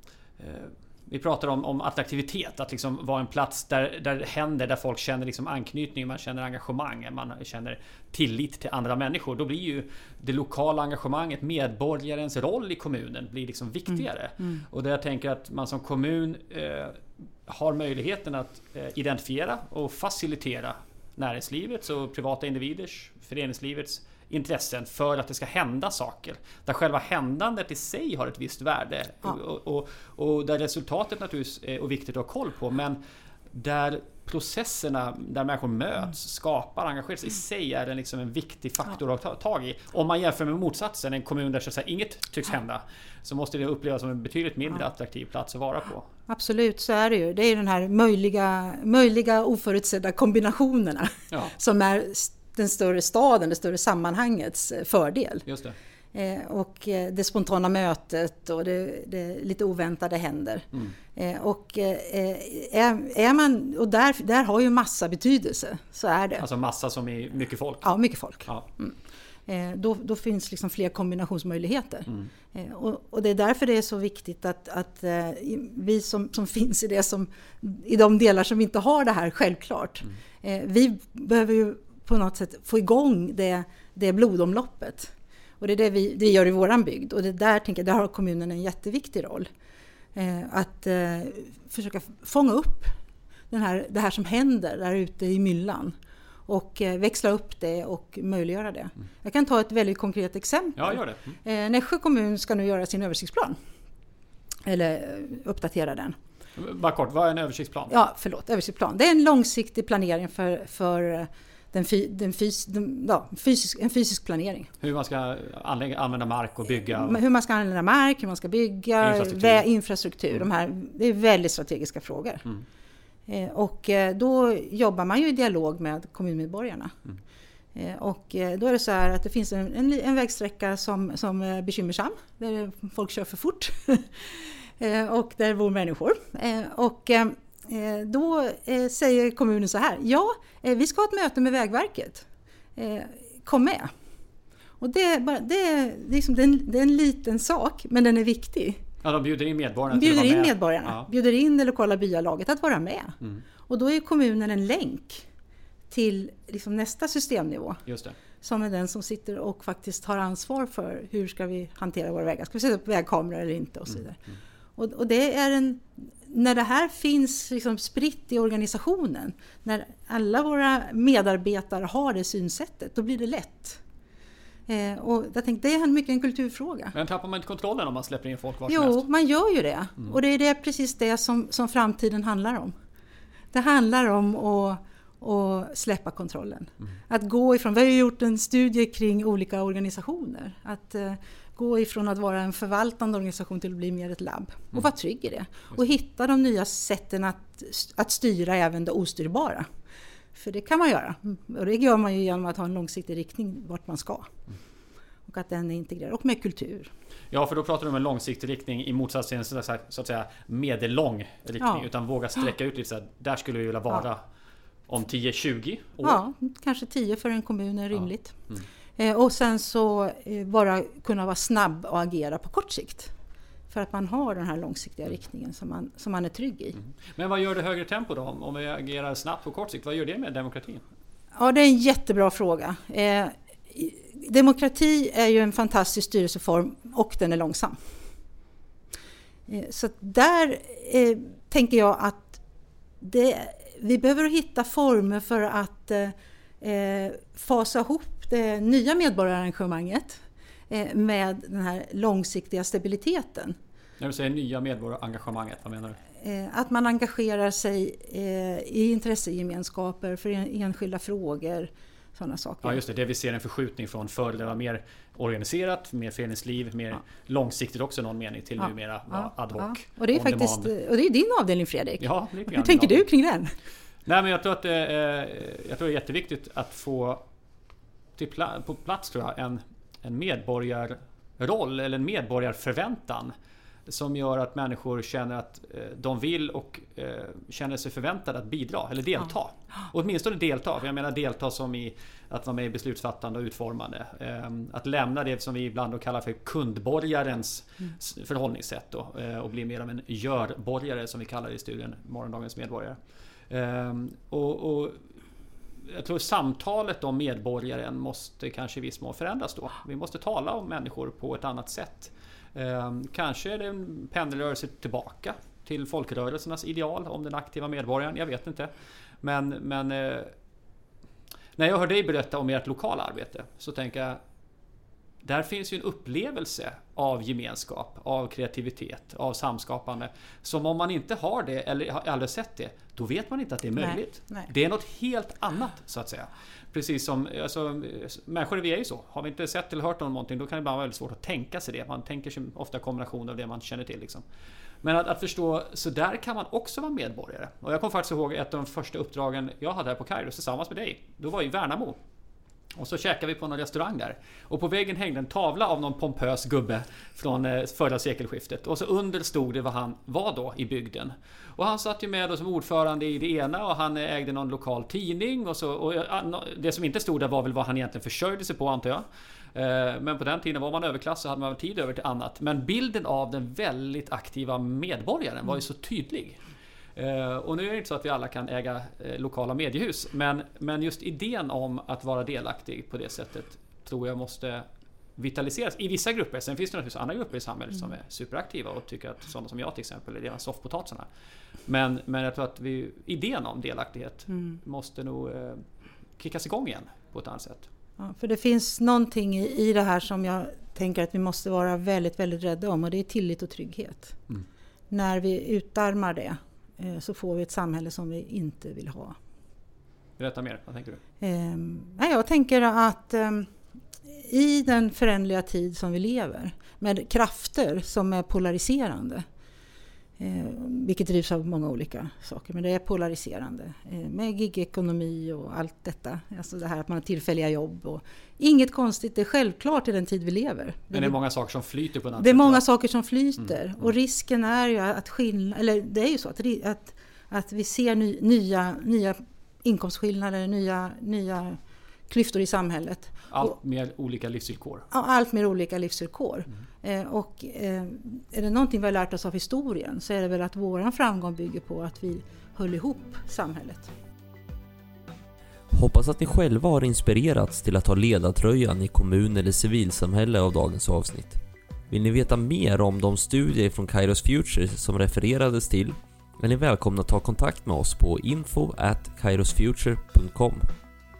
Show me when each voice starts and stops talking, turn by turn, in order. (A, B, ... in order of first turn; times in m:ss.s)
0:00.4-0:33.0 A
0:33.5-0:46.1 A
0:46.3-0:55.5 B
0:55.5-0:55.8 A
0:56.1-1:06.4 B
1:06.4-1:07.9 A
1:07.8-1:29.5 B
1:30.2-1:33.0 B
1:33.5-1:36.0 B
1:36.5-1:43.6 B
1:40.8-1:41.4 A
1:44.7-1:46.2 B
1:46.6-1:47.9 A
1:47.9-1:54.7 B
1:54.8-1:57.2 A
1:56.9-2:02.5 B
1:59.0-1:59.6 A
2:03.3-2:06.9 B
2:07.8-2:23.9 B
2:24.8-2:28.8 B
2:29.0-2:31.1 A
2:29.9-2:35.3 B
2:35.9-2:37.8 B
2:37.9-2:38.2 A
2:38.4-2:44.2 B
2:44.8-2:53.8 B
2:54.7-2:57.0 B
2:56.9-2:59.0 A
2:58.7-3:02.7 B
3:03.5-3:19.7 B
3:20.4-3:24.3 B
3:25.3-3:26.9 B
3:27.3-3:34.2 A
3:31.6-3:31.9 B
3:34.9-3:36.2 A
3:36.0-3:38.4 B
3:39.0-3:43.1 B
3:43.7-3:46.8 B
3:46.8-3:50.8 A
3:51.4-3:57.8 B
3:59.5-4:02.4 B
4:03.0-4:13.6 B
4:14.0-4:16.0 A
4:16.2-4:22.8 B
4:22.6-4:30.7 A
4:28.6-4:33.6 B
4:32.0-4:33.1 A
4:34.1-4:37.2 A
4:38.2-4:43.3 A
4:43.9-5:03.0 A
5:03.5-5:05.0 A
5:05.9-5:18.7 A
5:19.2-5:20.3 A
5:21.6-5:24.2 A
5:25.2-5:44.2 A
5:33.8-5:34.5 B
5:44.8-5:52.0 A
5:52.8-6:16.4 A
6:17.0-6:24.6 A
6:25.2-6:31.1 A
6:31.7-6:35.6 A
6:36.2-6:37.7 A
6:38.0-6:44.2 B
6:44.9-6:49.2 B
6:50.2-6:51.0 A
6:51.2-6:53.5 B
6:54.1-6:59.2 B
7:00.2-7:11.2 B
7:10.9-7:12.6 A
7:12.2-7:23.6 B
7:23.3-7:24.9 A
7:24.9-7:33.9 B
7:35.7-7:50.7 C